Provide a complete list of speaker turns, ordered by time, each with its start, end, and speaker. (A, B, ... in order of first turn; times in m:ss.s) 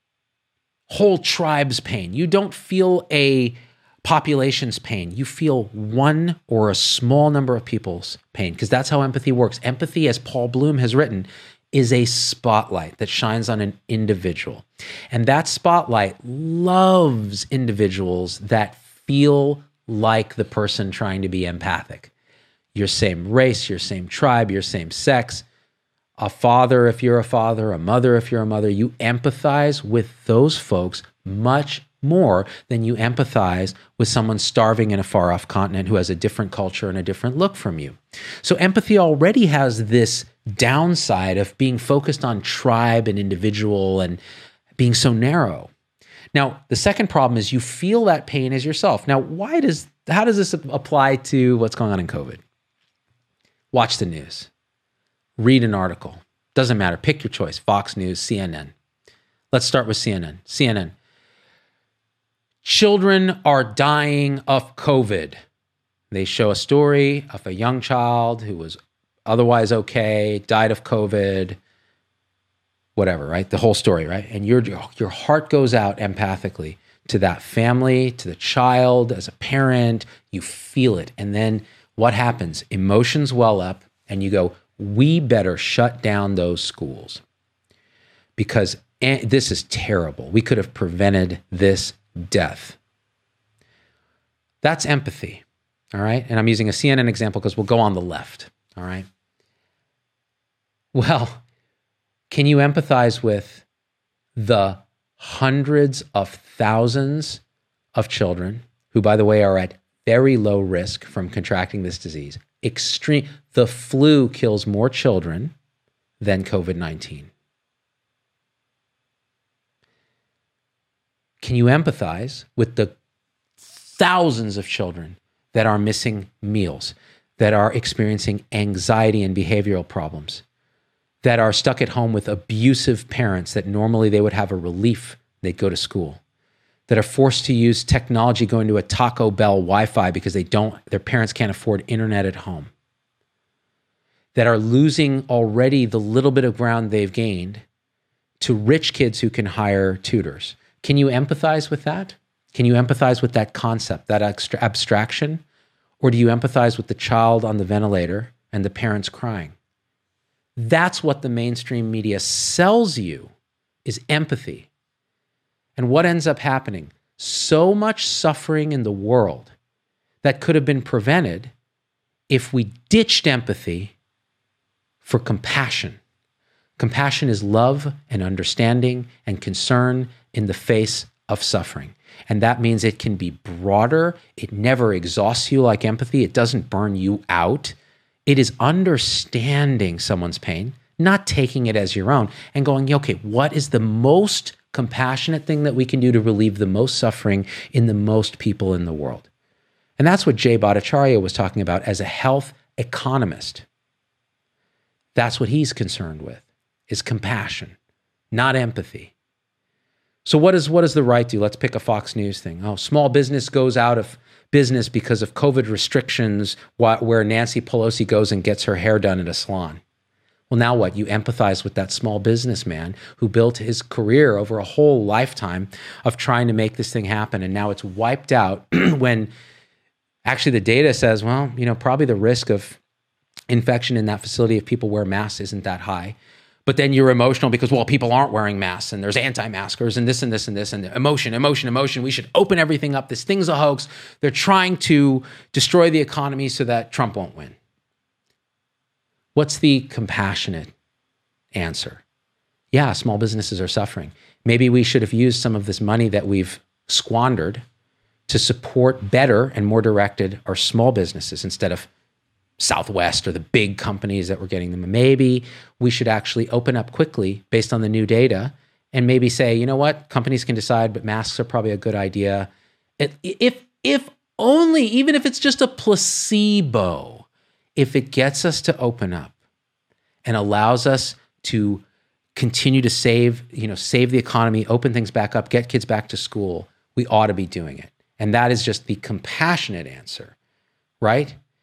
0:00.9-0:22.1 A
0:22.8-0:25.4 A
0:26.2-0:44.2 A
0:44.8-0:45.7 A
0:46.3-0:52.4 A
0:53.7-0:54.5 A
0:55.4-0:58.7 A
0:59.5-1:00.9 A
1:02.6-1:05.4 A
1:06.1-1:11.6 A
1:13.0-1:27.2 A
1:28.4-1:32.8 A
1:34.6-1:35.4 A
1:35.9-1:39.1 A
1:40.9-1:41.4 A
1:42.3-1:43.6 A
1:44.4-1:47.4 A
1:48.0-1:55.5 A
1:56.2-1:57.3 A
2:01.4-2:03.0 A
2:03.6-2:10.4 A
2:11.2-2:16.2 A
2:16.9-2:22.7 A
2:24.4-2:27.6 A
2:28.4-2:35.4 A
2:36.0-2:39.5 A
2:40.6-2:43.3 A
2:43.8-2:44.7 A
2:45.8-2:49.5 A
2:50.2-2:51.5 A
2:52.3-2:53.9 A
2:55.0-2:56.0 A
2:56.8-3:19.3 A
3:20.0-3:23.6 A
3:25.2-3:27.8 A
3:28.3-3:29.1 A
3:30.2-3:39.8 A
3:40.5-3:49.3 A
3:50.2-3:52.8 A
3:53.5-4:07.6 A
4:09.4-4:10.7 A
4:11.5-4:12.0 A
4:12.7-4:17.6 A
4:18.3-4:21.9 A
4:22.6-4:39.3 A
4:40.2-4:41.8 A
4:42.4-4:50.3 A
4:51.0-4:51.4 A